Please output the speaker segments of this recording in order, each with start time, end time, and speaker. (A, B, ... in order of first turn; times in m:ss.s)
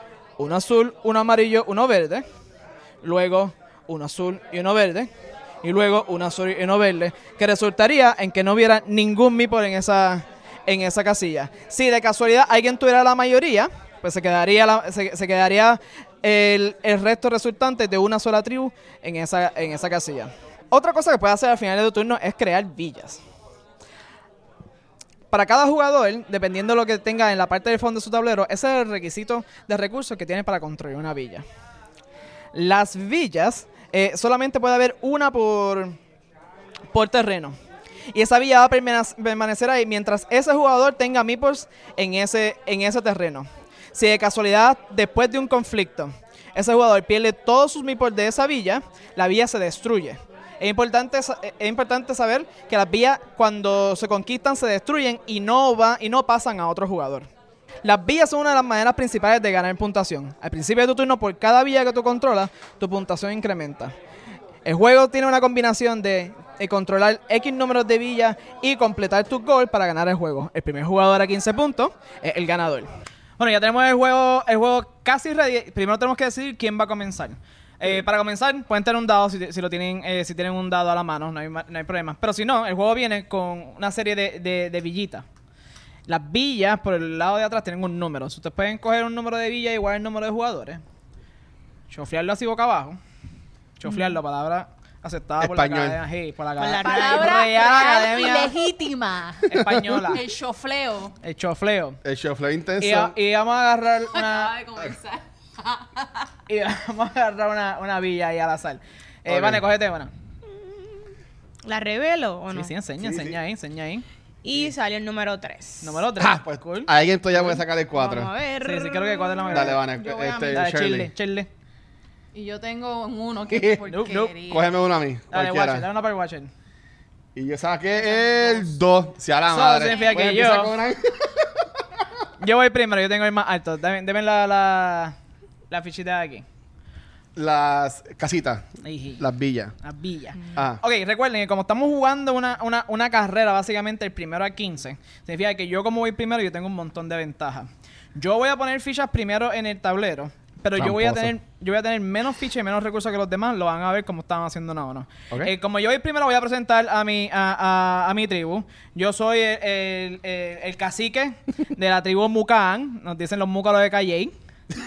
0:00.4-0:02.2 A
0:03.0-0:05.1 A
0:05.6-0:23.2 A
0:25.3-0:31.4 A
0:32.5-0:36.0 A
0:36.9-0:37.6 A
0:38.1-0:57.3 A
0:57.8-1:03.9 A
1:04.6-1:25.2 A
1:26.1-1:30.8 A
1:31.9-1:33.0 A
1:33.8-1:38.5 A
1:35.4-1:36.0 B
1:36.6-1:37.8 C
1:36.8-1:41.1 D
1:39.5-1:40.2 A
1:41.2-1:42.0 A
1:42.0-1:43.1 B
1:42.8-1:44.6 A
1:44.1-1:46.3 D
1:46.5-1:50.1 A
1:49.3-1:49.6 B
1:51.6-1:52.7 C
1:52.5-1:54.0 A
1:53.0-1:53.4 B
1:54.4-1:56.0 C
1:55.8-1:56.9 A
1:56.2-1:58.3 B
1:57.5-2:00.6 C
1:58.6-1:59.8 A
1:59.5-2:01.1 B
2:00.5-2:01.5 A
2:02.3-2:04.8 D
2:03.5-2:03.8 B
2:03.8-2:04.3 A
2:04.4-2:05.8 B
2:05.3-2:06.5 A
2:07.3-2:11.7 B
2:08.0-2:08.8 D
2:09.5-2:10.7 A
2:09.8-2:10.1 D
2:12.4-2:15.2 A
2:15.7-2:16.4 A
2:17.4-2:18.7 B
2:18.8-2:19.2 A
2:19.2-2:19.7 B
2:19.8-2:44.3 A
2:20.5-2:20.8 B
2:30.8-2:31.3 B